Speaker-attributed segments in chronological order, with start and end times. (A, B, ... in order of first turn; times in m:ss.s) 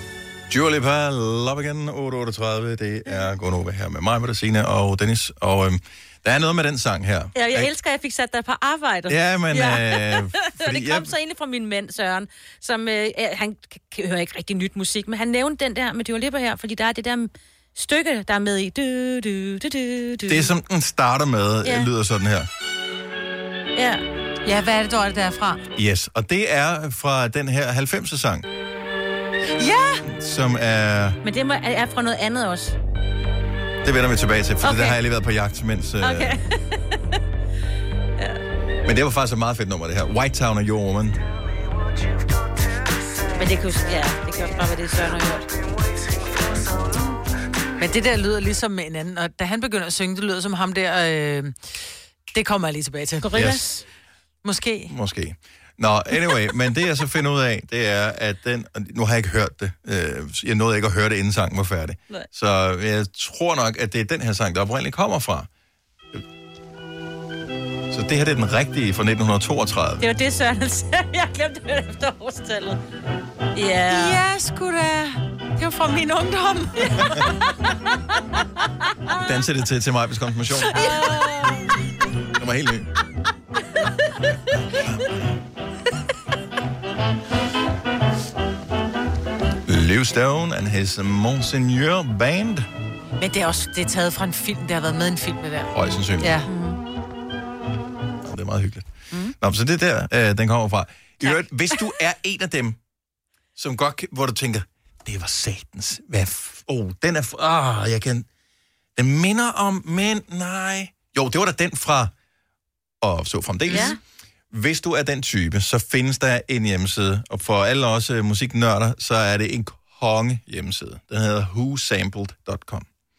0:00.5-0:07.7 A
0:07.4-0:20.5 B
0:09.1-0:11.1 A
0:20.3-0:22.5 A
0:23.8-0:24.0 B
0:24.4-0:25.6 C
0:25.8-0:28.4 A
0:29.6-0:30.0 C
0:30.1-0:31.2 A
0:31.2-0:32.8 B
0:33.8-0:36.4 A
0:34.6-0:35.0 B
0:36.0-0:36.6 B
0:38.8-0:41.2 A
0:43.4-0:45.5 B
0:47.8-0:53.6 C
0:53.2-0:53.8 B
0:54.4-0:54.9 C
0:54.9-1:05.5 A
1:07.9-1:10.0 A
1:10.0-1:12.8 B
1:13.5-1:14.2 B
1:13.9-1:17.1 C
1:19.2-1:20.8 A
1:20.8-1:21.7 B
1:22.4-1:22.9 A
1:29.7-1:32.7 A
1:33.2-1:36.8 C
1:35.7-1:36.4 A
1:38.2-1:42.8 A
1:43.6-1:48.3 A
1:49.0-1:52.1 A
1:53.0-1:54.0 A
1:53.7-1:54.0 B
1:54.5-2:02.9 A